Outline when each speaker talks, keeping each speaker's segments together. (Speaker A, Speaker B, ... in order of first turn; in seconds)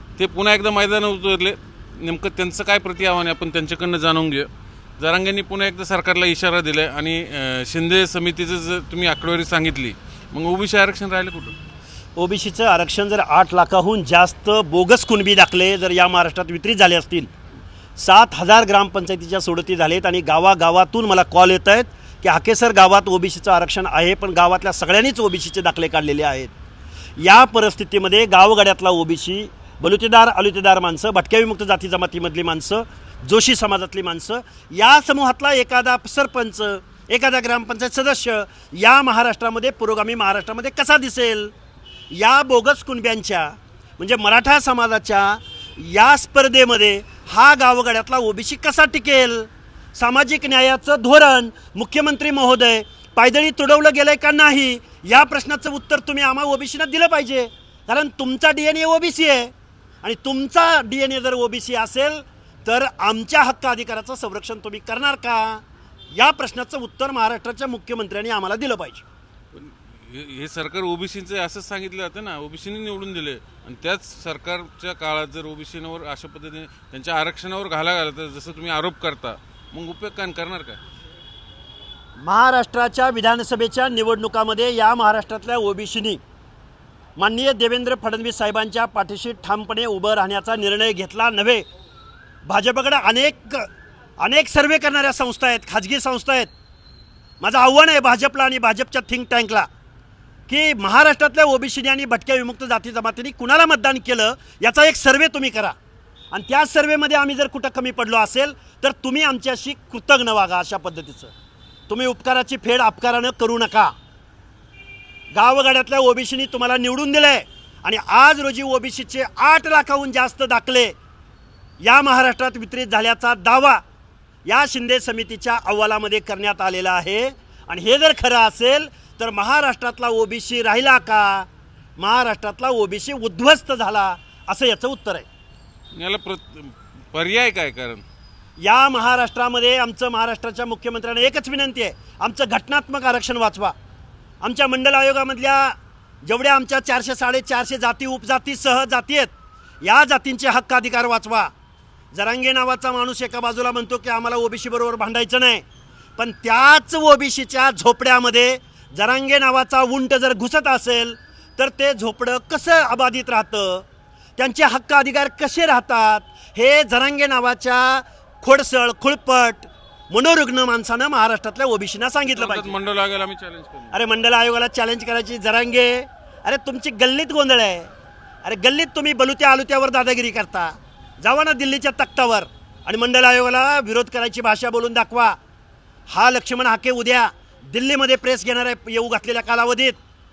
Speaker A: 0.2-11.6, 69.5-80.8, 135.9-138.0, 172.3-174.0
Speaker B: 12.2-17.3, 18.0-26.5, 27.2-41.5, 42.1-59.5, 60.0-69.0, 82.2-86.2, 87.2-91.7, 92.4-93.7, 94.2-96.5, 97.4-99.7, 100.5-105.8, 106.3-111.3, 111.9-113.9, 115.3-120.9, 121.8-123.8, 124.5-131.5, 132.0-135.2, 138.6-143.7, 144.4-151.5, 152.1-155.6, 156.2-163.8, 164.4-172.7, 173.9-177.9, 178.4-185.4, 186.1-190.0